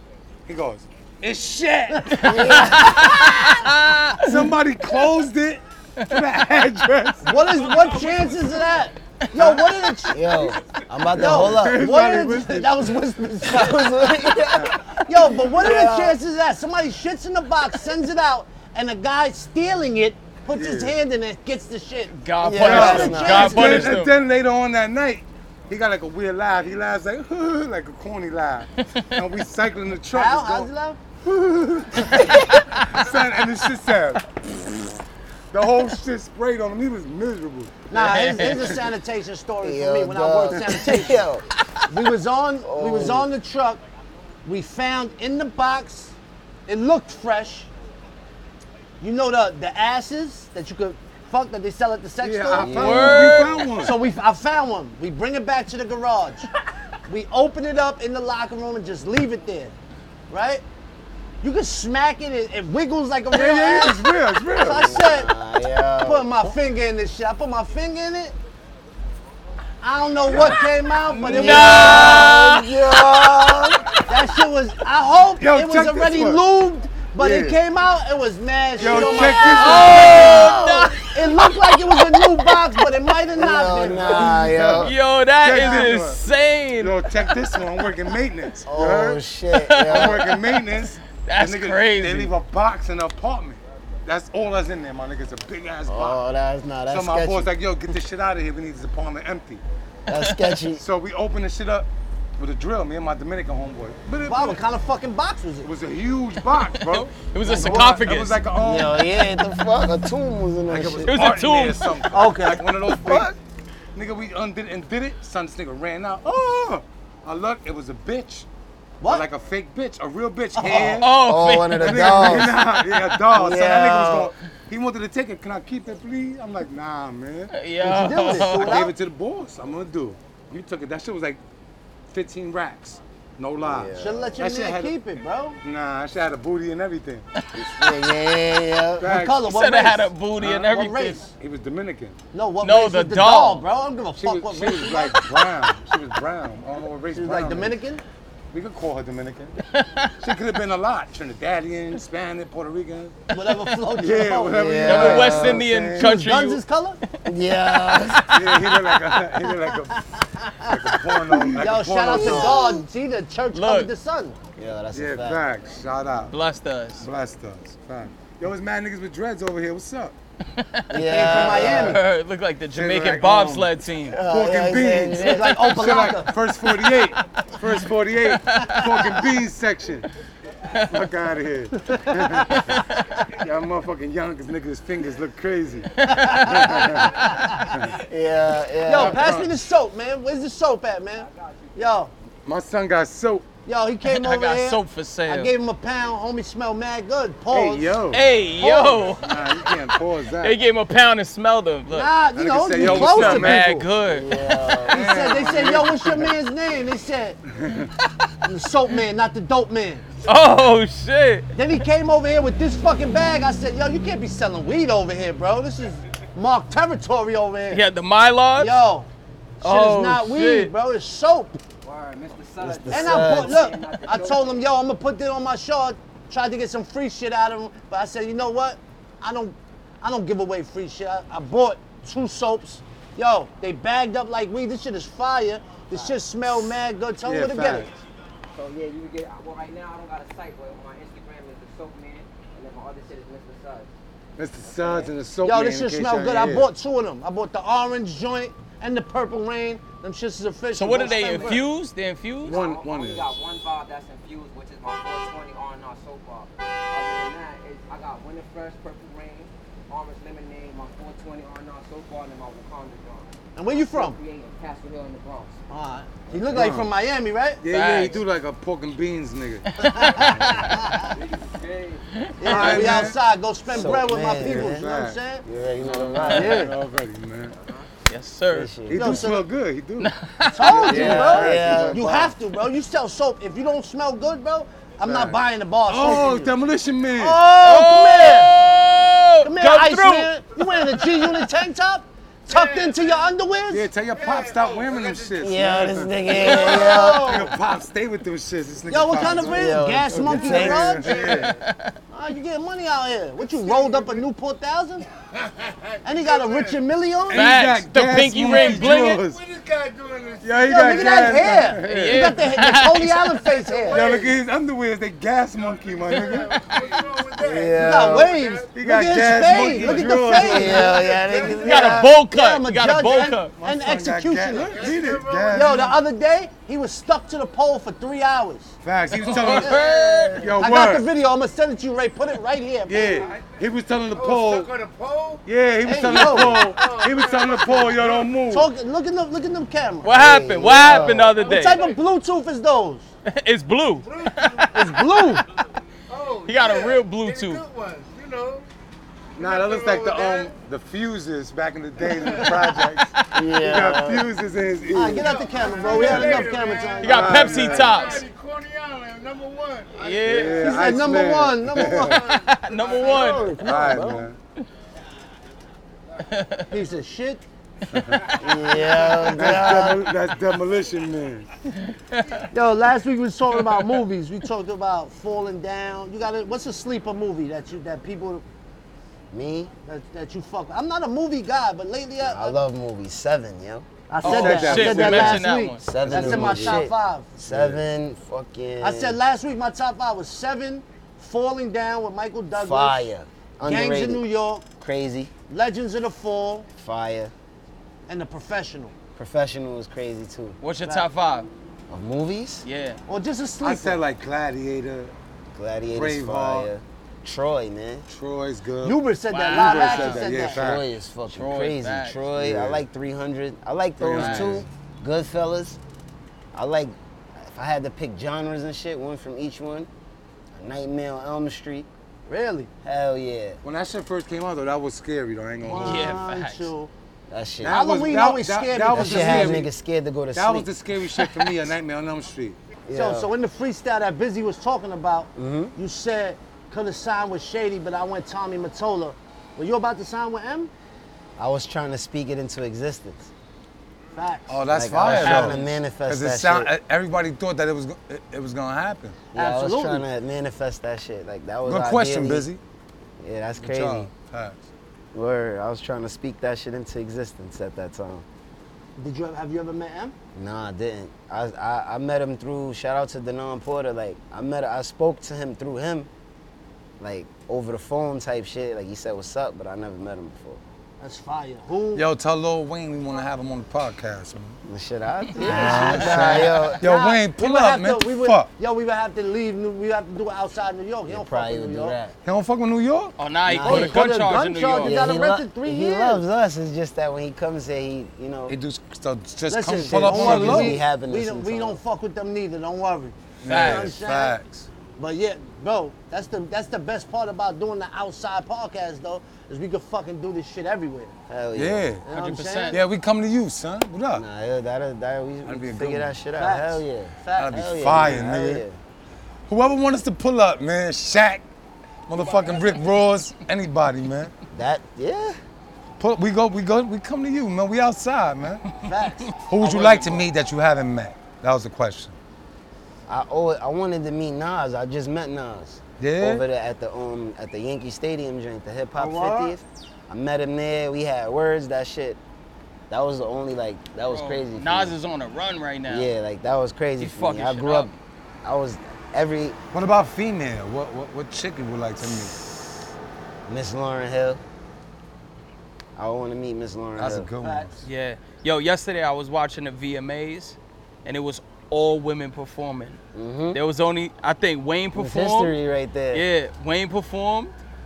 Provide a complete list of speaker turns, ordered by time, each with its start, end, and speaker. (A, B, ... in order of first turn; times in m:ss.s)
0:00.5-0:02.3 A
0:01.9-0:03.7 B
0:02.2-0:04.4 C
0:02.2-0:03.0 D
0:04.2-0:07.9 A
0:07.2-0:10.3 B
0:10.1-0:11.9 D
0:11.0-0:12.9 A
0:11.1-0:24.0 B
0:13.4-0:14.8 D
0:14.5-0:14.8 A
0:15.3-0:16.2 D
0:20.5-0:21.0 A
0:22.2-0:24.2 C
0:22.4-0:23.9 D
0:22.6-0:30.7 A
0:30.1-0:31.0 B
0:31.2-0:34.2 A
0:35.5-0:37.8 A
0:37.9-0:41.2 B
0:37.9-0:38.8 C
0:39.6-0:41.5 D
0:41.9-0:43.8 B
0:42.6-0:43.3 D
0:44.4-0:46.2 B
0:46.7-0:47.7 B
0:49.0-0:53.0 B
0:52.2-0:54.0 A
0:52.6-0:53.6 D
0:52.8-0:53.7 C
0:53.7-0:56.5 B
0:57.1-0:59.8 B
1:00.3-1:00.6 B
1:01.4-1:05.3 B
1:03.3-1:04.9 A
1:04.7-1:06.3 D
1:06.0-1:08.4 B
1:09.8-1:12.3 B
1:11.1-1:13.6 C
1:11.2-1:13.8 D
1:14.1-1:24.3 B
1:15.4-1:16.4 A
1:17.2-1:17.6 A
1:18.8-1:20.4 A
1:18.8-1:22.8 C
1:19.7-1:21.0 D
1:23.3-1:24.9 D
1:23.8-1:26.2 A
1:24.8-1:28.0 C
1:26.8-1:29.2 A
1:28.7-1:30.3 D
1:29.5-1:32.3 C
1:29.9-1:36.2 A
1:35.9-1:37.5 D
1:36.9-1:39.6 A
1:40.1-1:40.8 D
1:40.1-1:40.6 C
1:40.8-1:44.6 A
1:44.2-1:45.7 B
1:45.6-1:49.1 A
1:46.5-1:48.4 C
1:47.5-1:48.0 B
1:48.6-1:51.2 D
1:50.7-1:53.3 A
1:51.0-1:52.7 C
1:52.1-1:52.6 B
1:52.9-1:53.3 D
1:54.0-1:58.5 A
1:59.0-2:01.1 A
2:00.6-2:01.0 B
2:01.0-2:02.7 C
2:01.1-2:02.6 D
2:01.8-2:07.5 A
2:03.3-2:04.3 D
2:07.5-2:08.9 C
2:07.8-2:08.9 B
2:08.3-2:11.4 A
2:12.1-2:15.0 A
2:13.6-2:14.3 D
2:14.0-2:15.6 B
2:15.6-2:17.2 A
2:17.5-2:18.0 C
2:17.6-2:19.2 D
2:19.0-2:19.4 A
2:19.1-2:21.3 B
2:19.4-2:21.2 C
2:20.4-2:20.7 A
2:21.3-2:22.2 A
2:22.3-2:25.2 B
2:22.6-2:23.6 C
2:24.2-2:27.8 A
2:27.1-2:28.0 B
2:28.5-2:29.6 A
2:29.7-2:30.2 C
2:30.2-2:33.2 A
2:33.3-2:34.9 B
2:33.9-2:36.1 A
2:34.5-2:35.7 D
2:34.9-2:36.6 C
2:36.0-2:37.0 B
2:37.2-2:38.5 D
2:37.9-2:38.2 C
2:38.3-2:42.7 A
2:40.2-2:40.7 B
2:41.4-2:42.8 D
2:41.6-2:44.4 B
2:43.5-2:43.9 C
2:44.6-2:45.4 D
2:44.9-2:46.3 A
2:46.3-2:47.0 C
2:47.0-2:50.2 A
2:50.6-2:54.2 C
2:50.9-2:52.0 D
2:50.9-2:52.0 B
2:52.7-3:00.1 A
2:54.1-2:55.4 D
2:55.2-2:56.4 B
2:58.5-2:58.8 C
2:58.6-2:59.2 B
3:00.9-3:08.0 A
3:06.0-3:06.7 C
3:06.0-3:07.8 B
3:07.0-3:07.5 E
3:08.0-3:09.4 D
3:08.8-3:12.1 B
3:08.9-3:09.6 A
3:11.1-3:12.0 E
3:12.5-3:13.5 A
3:13.7-3:18.0 B
3:14.0-3:15.5 C
3:17.5-3:18.2 A
3:18.1-3:19.7 C
3:18.6-3:19.1 B
3:19.1-3:20.6 A
3:20.4-3:22.2 C
3:21.9-3:23.9 B
3:22.3-3:23.7 A
3:22.8-3:24.6 C
3:24.0-3:25.1 D
3:24.9-3:26.3 A
3:24.9-3:27.4 B
3:27.5-3:27.9 A
3:28.4-3:30.1 B
3:30.2-3:31.5 C
3:31.6-3:37.8 B
3:37.7-3:38.8 C
3:38.6-3:39.1 B
3:39.6-3:41.6 B
3:39.6-3:40.7 C
3:41.8-3:44.7 E
3:42.6-3:43.6 D
3:42.9-3:57.9 B
3:55.9-3:56.2 E
3:57.2-3:57.9 A
3:58.5-4:03.9 E
4:04.4-4:06.7 A
4:04.6-4:05.2 E
4:05.4-4:11.6 B
4:10.7-4:12.6 C
4:11.0-4:11.7 E
4:12.4-4:25.6 E
4:12.5-4:13.4 A
4:23.6-4:24.2 B
4:25.7-4:27.6 B
4:26.3-4:26.8 D
4:26.5-4:26.9 A
4:27.6-4:30.7 A
4:27.7-4:28.2 C
4:29.8-4:31.0 C
4:29.8-4:31.1 B
4:31.0-4:32.1 E
4:32.2-4:32.9 C
4:32.4-4:35.4 B
4:32.4-4:33.2 A
4:32.6-4:33.1 D
4:33.7-4:34.8 D
4:33.8-4:35.2 A
4:35.4-4:36.7 D
4:35.8-4:37.6 A
4:35.8-4:36.2 E
4:36.2-4:36.7 B
4:36.3-4:36.6 C
4:37.5-4:37.9 E
4:38.1-4:38.7 C
4:38.5-4:39.3 D
4:38.9-4:42.3 A
4:38.9-4:39.5 B
4:40.0-4:40.8 C
4:40.5-4:46.5 B
4:40.8-4:42.4 D
4:45.0-4:45.4 A
4:45.9-4:47.4 A
4:47.2-4:48.5 B
4:47.6-4:51.3 C
4:49.4-4:53.9 B
4:52.5-4:53.4 F
4:53.7-5:01.5 A
4:54.1-4:56.9 F
4:55.4-4:57.5 D
4:56.3-4:57.5 B
4:58.9-5:01.5 B
4:59.5-5:01.1 D
5:01.0-5:01.6 F
5:01.5-5:01.9 C
5:02.1-5:05.0 B
5:03.4-5:04.2 F
5:05.3-5:06.8 F
5:06.0-5:07.5 B
5:07.3-5:09.4 A
5:07.3-5:09.2 C
5:08.4-5:11.6 F
5:10.4-5:12.4 A
5:10.7-5:14.1 B
5:11.8-5:13.3 C
5:13.4-5:14.4 F
5:13.9-5:16.7 A
5:15.5-5:18.8 F
5:16.1-5:17.0 C
5:17.4-5:18.3 D
5:17.8-5:25.0 B
5:18.8-5:21.0 A
5:19.5-5:22.0 F
5:20.3-5:22.2 D
5:21.5-5:23.5 C
5:23.6-5:26.0 A
5:24.7-5:25.8 F
5:25.5-5:28.8 B
5:28.8-5:29.8 A
5:29.1-5:30.5 C
5:29.3-5:29.9 B
5:29.8-5:30.5 F
5:30.4-5:31.1 A
5:30.6-5:33.3 B
5:32.9-5:34.7 A
5:33.1-5:33.6 F
5:34.1-5:38.4 F
5:35.4-5:38.7 A
5:35.8-5:36.6 B
5:38.5-5:40.1 B
5:40.0-5:41.8 C
5:40.1-5:41.4 D
5:40.9-5:42.0 F
5:41.4-5:43.1 B
5:43.3-5:45.4 C
5:44.0-5:44.7 F
5:44.7-5:45.4 B
5:46.1-5:48.7 F
5:46.5-5:47.6 C
5:49.4-5:58.0 A
5:49.4-5:50.6 F
5:52.0-5:52.9 F
5:53.3-5:54.3 D
5:54.9-5:58.0 B
5:55.0-6:03.7 F
5:57.0-5:58.3 C
6:00.0-6:00.8 C
6:00.2-6:02.2 A
6:00.6-6:02.3 B
6:02.3-6:03.7 C
6:03.0-6:04.3 B
6:03.6-6:04.4 A
6:06.2-6:06.7 C
6:06.7-6:07.4 B
6:07.9-6:08.3 A
6:08.4-6:10.1 D
6:08.8-6:09.3 F
6:09.3-6:11.5 A
6:09.3-6:09.9 B
6:12.1-6:12.4 C
6:12.5-6:18.4 B
6:13.5-6:14.0 C
6:19.3-6:19.7 D
6:19.9-6:22.6 B
6:22.2-6:29.2 D
6:24.1-6:27.3 B
6:24.2-6:25.8 C
6:24.2-6:25.4 A
6:26.0-6:26.8 A
6:27.5-6:27.8 A
6:28.8-6:33.1 B
6:32.6-6:34.2 D
6:33.6-6:34.6 B
6:34.8-6:35.3 D
6:35.5-6:36.7 B
6:36.8-6:37.3 D
6:38.1-6:38.9 B
6:39.2-6:40.6 D
6:40.6-6:41.5 C
6:41.9-6:42.6 D
6:42.6-6:43.0 C
6:43.1-6:44.0 B
6:43.6-6:45.2 A
6:45.5-6:48.1 D
6:45.9-6:46.7 A
6:48.1-6:50.8 A
6:48.8-6:50.6 B
6:49.3-6:50.3 C
6:50.4-6:55.8 D
6:51.3-6:52.2 C
6:52.4-6:52.8 A
6:54.0-6:54.7 A
6:54.2-6:54.6 C
6:56.5-6:59.9 D
7:00.5-7:01.9 D
7:02.3-7:02.7 B
7:02.8-7:03.6 D
7:03.6-7:06.2 A
7:05.6-7:06.9 B
7:05.8-7:06.7 C
7:07.3-7:07.8 D
7:07.6-7:09.7 A
7:07.7-7:09.7 B
7:08.9-7:10.7 D
7:10.3-7:12.6 A
7:11.1-7:11.6 C
7:12.9-7:13.3 D
7:12.9-7:20.7 B
7:15.4-7:15.7 D
7:21.4-7:23.3 D
7:24.1-7:25.7 B
7:24.5-7:29.2 A
7:24.7-7:26.7 D
7:29.3-7:32.5 D
7:29.3-7:30.1 B
7:31.6-7:32.6 A
7:33.2-7:34.1 D
7:33.6-7:34.6 A
7:35.1-7:38.3 D
7:39.0-7:40.2 B
7:40.3-7:46.1 D
7:47.0-7:50.6 D
7:51.0-7:52.1 B
7:52.0-7:54.6 A
7:54.6-7:56.8 D
7:55.4-8:02.0 B
7:55.4-7:58.5 A
8:01.1-8:02.2 D
8:02.2-8:03.2 A
8:03.2-8:05.0 C
8:03.5-8:04.0 D
8:03.6-8:06.2 B
8:04.8-8:08.6 D
8:08.5-8:10.8 A
8:09.5-8:14.4 B
8:09.8-8:11.8 D
8:13.4-8:14.7 A
8:13.4-8:14.0 C
8:15.0-8:21.2 B
8:21.3-8:21.9 D
8:21.6-8:22.0 A
8:22.0-8:22.8 B
8:22.1-8:22.8 C
8:22.7-8:24.3 A
8:24.1-8:28.8 D
8:25.4-8:26.1 A
8:26.4-8:28.2 B
8:27.4-8:28.6 A
8:29.5-8:31.4 A
8:32.1-8:34.3 A
8:34.5-8:35.4 D
8:36.0-8:38.6 A
8:38.8-8:39.3 B
8:39.5-8:42.2 A
8:39.6-8:40.2 D
8:39.9-8:40.2 B
8:43.1-8:52.2 D
8:46.0-8:46.4 A
8:49.0-8:49.6 B
8:52.9-8:55.0 D
8:54.1-8:56.1 C
8:55.9-8:57.9 D
8:57.0-8:57.9 C
8:58.4-8:59.6 D
8:59.7-9:02.4 A
9:03.5-9:04.4 D
9:06.0-9:07.3 D
9:07.0-9:07.7 A
9:07.4-9:07.8 B
9:07.8-9:13.0 C
9:13.1-9:13.6 D
9:13.5-9:15.5 C
9:15.0-9:16.2 D
9:16.1-9:17.5 C